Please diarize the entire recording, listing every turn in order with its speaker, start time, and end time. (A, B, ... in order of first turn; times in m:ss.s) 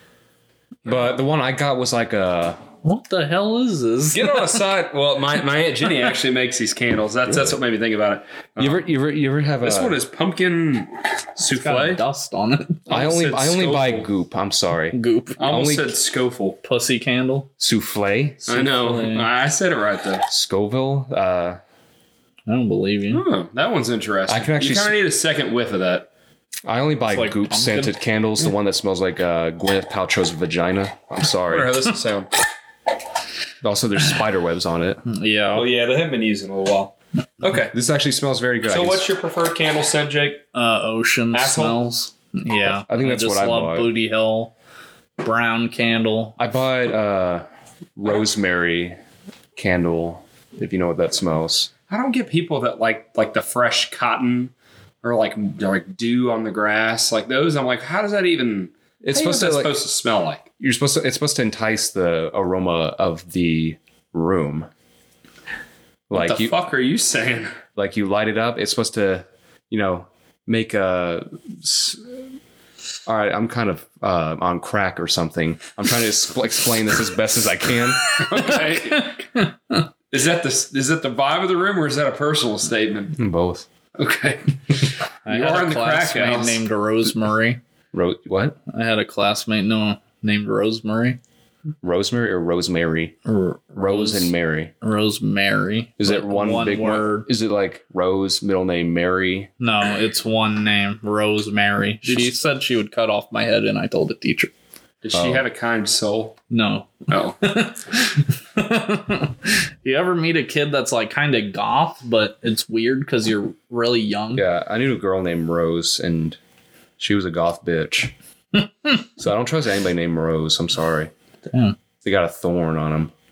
0:00.8-0:02.6 A
0:02.8-0:04.6 B
0:04.1-0:08.9 C
0:07.3-0:07.6 A
0:08.6-0:10.0 A
0:09.6-0:12.0 C
0:11.6-0:12.9 B
0:12.9-0:14.1 C
0:12.9-0:15.9 A
0:14.9-0:15.5 B
0:15.4-0:16.6 C
0:16.6-0:17.5 B
0:17.6-0:18.4 A
0:18.4-0:19.3 B
0:18.5-0:20.2 C
0:20.3-0:21.6 A
0:22.5-0:23.2 B
0:23.1-0:26.1 C
0:24.3-0:25.0 A
0:26.6-0:31.7 A
0:27.1-0:27.9 B
0:31.5-0:32.3 C
0:33.6-0:35.0 A
0:35.1-0:35.7 B
0:35.5-0:37.8 C
0:37.7-0:39.1 A
0:38.7-0:40.5 C
0:40.6-0:44.5 B
0:41.3-0:41.8 C
0:42.7-0:43.9 A
0:45.2-0:46.4 B
0:46.4-0:47.4 A
0:48.0-0:49.0 A
0:49.6-0:51.7 A
0:51.9-1:00.5 C
0:59.0-0:59.7 A
1:00.6-1:04.7 A
1:06.1-1:06.6 A
1:06.1-1:07.6 C
1:07.8-1:12.0 A
1:13.1-1:18.0 A
1:18.2-1:19.2 C
1:18.3-1:19.9 B
1:20.1-1:23.2 C
1:23.2-1:23.7 A
1:24.0-1:26.6 C
1:25.3-1:27.6 B
1:27.9-1:28.6 A
1:28.7-1:31.2 B
1:31.8-1:33.2 A
1:33.3-1:37.3 B
1:33.8-1:34.7 A
1:36.0-1:39.5 A
1:39.6-1:44.5 B
1:45.0-1:46.4 C
1:45.1-1:45.4 A
1:46.5-1:54.4 B
1:47.1-1:47.4 C
1:54.4-1:56.4 A
1:57.0-1:58.1 A
1:58.6-1:59.0 B
1:59.2-2:01.1 A
2:01.5-2:01.8 B
2:02.0-2:03.1 A